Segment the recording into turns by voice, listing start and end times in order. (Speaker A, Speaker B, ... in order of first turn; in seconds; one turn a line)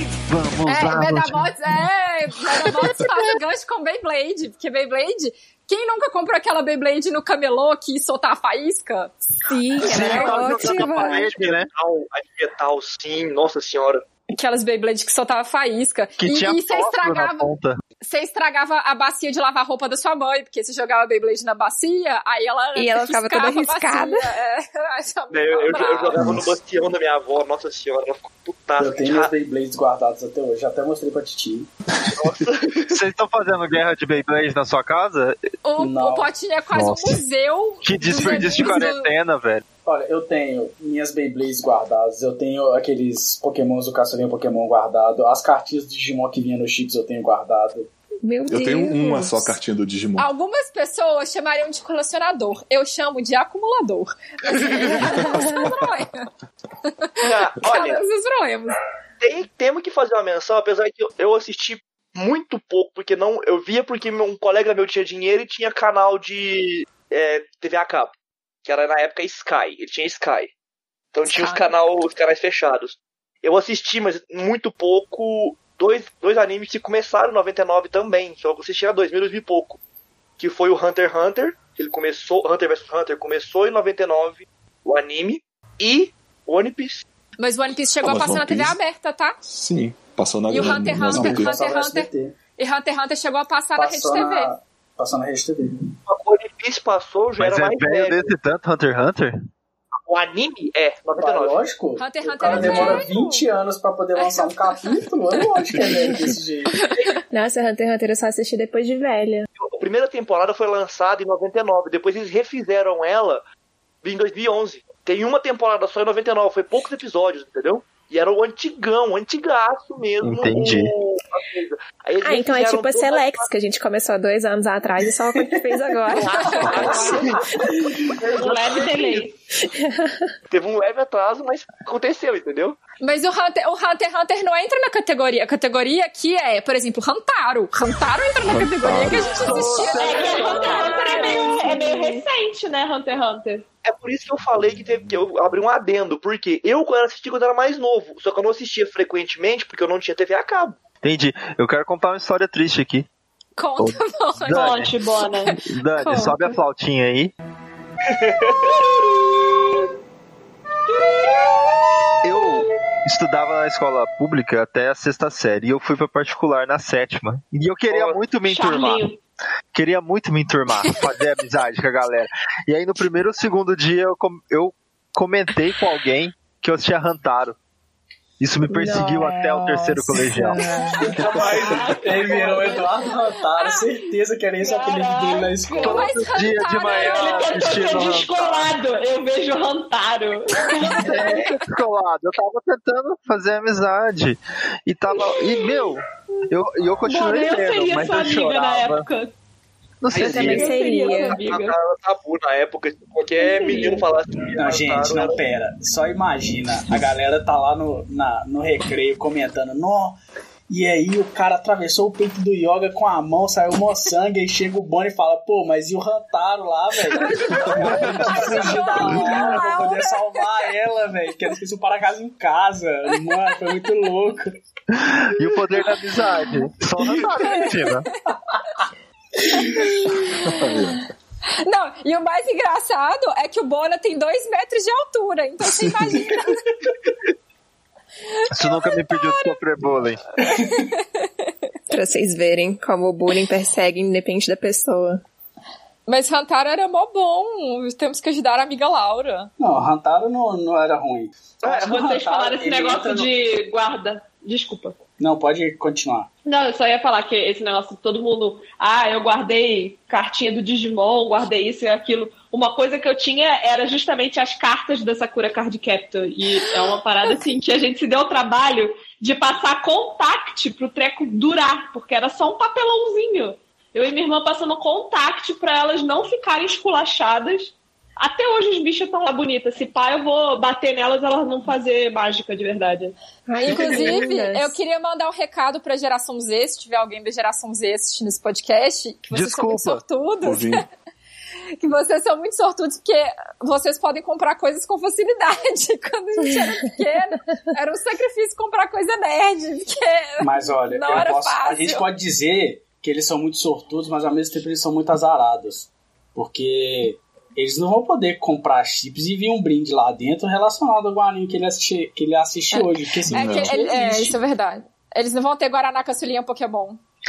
Speaker A: 0.3-1.5
Speaker B: 0.7-11.1
Speaker C: 9.4-11.3
Speaker A: 9.8-11.7
Speaker D: 11.0-14.0
Speaker B: 14.3-17.5
Speaker A: 16.2-17.8
Speaker B: 18.0-26.2
Speaker C: 22.8-24.3
Speaker D: 25.3-29.3
Speaker E: 26.2-26.6
Speaker F: 28.8-31.7
Speaker D: 32.1-33.0
Speaker A: 32.9-35.4
Speaker B: 35.6-39.1
Speaker F: 35.8-36.3
Speaker A: 36.7-37.2
Speaker A: 37.8-39.6
Speaker F: 39.9-47.9
Speaker C: 48.2-49.6
Speaker E: 48.5-50.3
Speaker B: 50.2-56.3
Speaker D: 54.5-55.1
Speaker E: 55.2-55.6
Speaker B: 57.0-58.8
Speaker D: 57.2-58.0
Speaker D: 59.2-68.1
Speaker D: 68.7-70.5
Speaker D: 71.1-79.8
Speaker B: 71.3-71.6
Speaker D: 80.4-87.0
Speaker B: 87.4-89.4
Speaker E: 88.0-88.8
Speaker E: 89.5-91.6
Speaker B: 90.5-94.5
Speaker F: 91.1-92.4
Speaker F: 93.8-95.9
Speaker D: 96.1-98.3
Speaker A: 97.4-99.3
Speaker D: 100.1-101.6
Speaker F: 101.2-106.8
Speaker B: 102.0-103.5
Speaker E: 102.4-103.1
Speaker B: 104.2-105.4
Speaker E: 105.8-106.3
Speaker B: 106.8-107.1
Speaker D: 106.9-107.2
Speaker C: 107.3-109.5
Speaker D: 109.6-113.4
Speaker D: 114.0-123.5
Speaker A: 120.2-120.9
Speaker C: 122.2-127.8
Speaker F: 125.3-125.6
Speaker D: 126.1-127.5
Speaker B: 126.4-127.0
Speaker G: 126.7-127.4
Speaker D: 128.1-129.3
Speaker G: 128.3-129.3
Speaker C: 129.6-130.3
Speaker D: 130.5-132.8
Speaker B: 133.0-141.4
Speaker E: 138.4-140.0
Speaker A: 139.3-140.8
Speaker G: 140.0-143.7
Speaker D: 140.0-141.3
Speaker C: 140.2-142.2
Speaker D: 143.8-150.8
Speaker A: 151.0-153.1
Speaker B: 153.6-154.8
Speaker A: 153.8-154.9
Speaker G: 154.5-155.6
Speaker B: 155.5-156.4
Speaker A: 155.7-157.3
Speaker D: 158.1-158.7
Speaker G: 158.8-159.9
Speaker G: 160.9-161.8
Speaker A: 162.2-169.1
Speaker G: 162.3-162.6
Speaker D: 167.9-168.2
Speaker G: 168.4-169.2
Speaker A: 169.7-177.6
Speaker A: 178.4-180.6
Speaker C: 178.7-181.2
Speaker F: 181.1-186.1
Speaker D: 181.1-182.7
Speaker G: 181.2-183.1
Speaker G: 184.6-186.0
Speaker A: 185.8-188.7
Speaker B: 185.8-187.8
Speaker G: 186.9-191.4
Speaker A: 190.9-199.1
Speaker B: 191.1-191.5
Speaker D: 191.1-191.5
Speaker G: 197.1-199.3
Speaker A: 200.0-200.8
Speaker C: 200.1-201.4
Speaker G: 200.1-201.8
Speaker D: 200.4-205.4
Speaker G: 203.4-204.1
Speaker F: 204.6-210.2
Speaker F: 210.7-224.5
Speaker B: 217.2-220.4
Speaker A: 217.9-218.9
Speaker A: 224.9-228.1
Speaker B: 227.4-227.8
Speaker B: 229.5-230.8
Speaker E: 230.4-231.0
Speaker B: 231.6-236.6
Speaker B: 238.5-239.5
Speaker A: 238.5-240.2
Speaker F: 240.4-240.7
Speaker B: 240.4-241.5
Speaker C: 241.9-245.2
Speaker B: 246.1-249.5
Speaker F: 249.6-253.3
Speaker D: 251.6-252.0
Speaker G: 251.7-255.0
Speaker F: 255.2-256.3
Speaker G: 256.4-283.1
Speaker C: 283.5-284.8
Speaker B: 283.6-290.8
Speaker A: 289.3-290.0
Speaker E: 290.4-290.8
Speaker B: 291.8-302.1
Speaker F: 300.4-314.4
Speaker B: 312.7-317.0
Speaker E: 313.2-313.8